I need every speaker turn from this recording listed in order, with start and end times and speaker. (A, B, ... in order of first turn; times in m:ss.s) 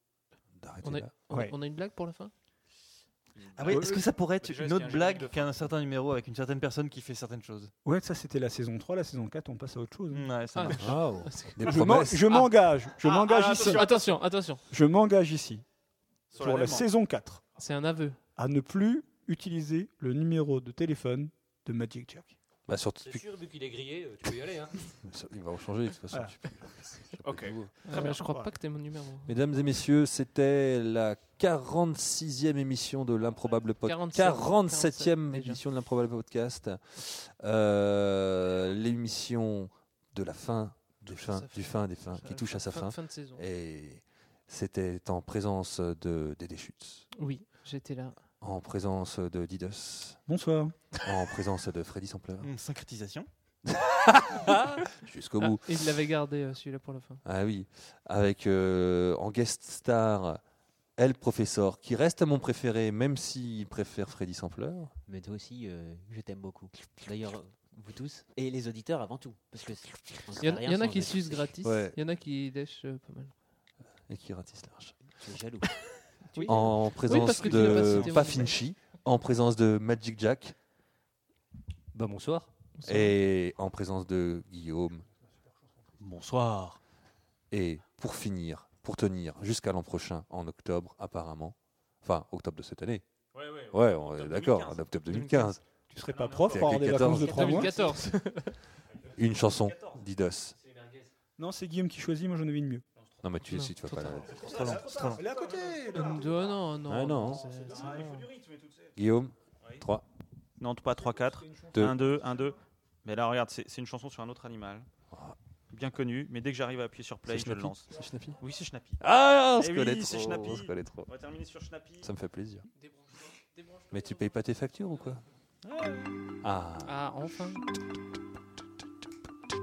0:00.6-0:01.1 A
0:00.8-0:02.3 B
0:01.3-0:01.6 C
0:03.3-0:05.6 D
0:03.5-0:07.7 E
0:03.7-0:04.0 C
0:07.8-0:10.3 C
0:10.1-0:11.0 E
0:10.6-0:11.6 B
0:10.8-0:12.4 A
0:11.6-0:13.9 C
0:13.0-0:14.1 D
0:13.6-0:14.6 B
0:14.7-0:15.6 C
0:16.3-0:16.9 D
0:16.3-0:17.4 C
0:17.6-0:18.2 B
0:18.4-0:22.3 C
0:22.7-0:23.3 A
0:23.0-0:24.8 F
0:25.0-0:27.7 A
0:27.2-0:28.2 D
0:27.8-0:29.3 B
0:28.0-0:28.5 C
0:29.2-0:47.1 A
0:33.8-0:35.6 B
0:41.1-0:43.4 B
0:47.1-0:48.2 B
0:48.4-0:50.2 A
0:50.3-0:50.7 C
0:51.0-0:52.5 A
0:52.4-0:53.3 E
0:53.7-0:55.7 A
0:55.4-0:57.2 B
0:57.2-1:00.4 A
1:01.0-1:04.9 A
1:05.0-1:11.6 G
1:10.4-1:13.3 B
1:11.6-1:12.0 A
1:14.1-1:14.9 A
1:15.2-1:15.7 G
1:16.3-1:18.6 B
1:16.4-1:20.6 A
1:16.5-1:17.8 G
1:21.9-1:22.5 F
1:22.8-1:23.1 B
1:22.8-1:25.0 A
1:26.0-1:26.8 F
1:27.5-1:33.0 A
1:33.3-1:35.0 D
1:33.7-1:35.6 A
1:35.1-1:35.5 B
1:35.9-1:37.8 C
1:36.0-1:36.8 D
1:36.5-1:37.7 A
1:37.0-1:38.6 B
1:39.2-1:40.6 A
1:39.6-1:40.0 D
1:41.4-1:42.8 C
1:43.2-1:44.6 A
1:43.5-1:44.3 B
1:44.4-1:45.2 E
1:45.1-1:46.1 C
1:45.2-1:45.8 D
1:45.9-1:48.3 B
1:46.9-1:47.4 A
1:47.7-1:48.9 D
1:49.0-1:50.0 A
1:50.6-1:54.9 D
1:51.0-1:52.5 C
1:51.7-1:52.1 A
1:55.7-1:59.0 D
1:57.3-1:58.4 A
1:59.0-2:01.2 A
1:59.5-2:02.1 D
2:02.0-2:02.7 A
2:03.9-2:05.2 A
2:05.6-2:06.2 D
2:06.4-2:07.0 A
2:06.8-2:07.6 B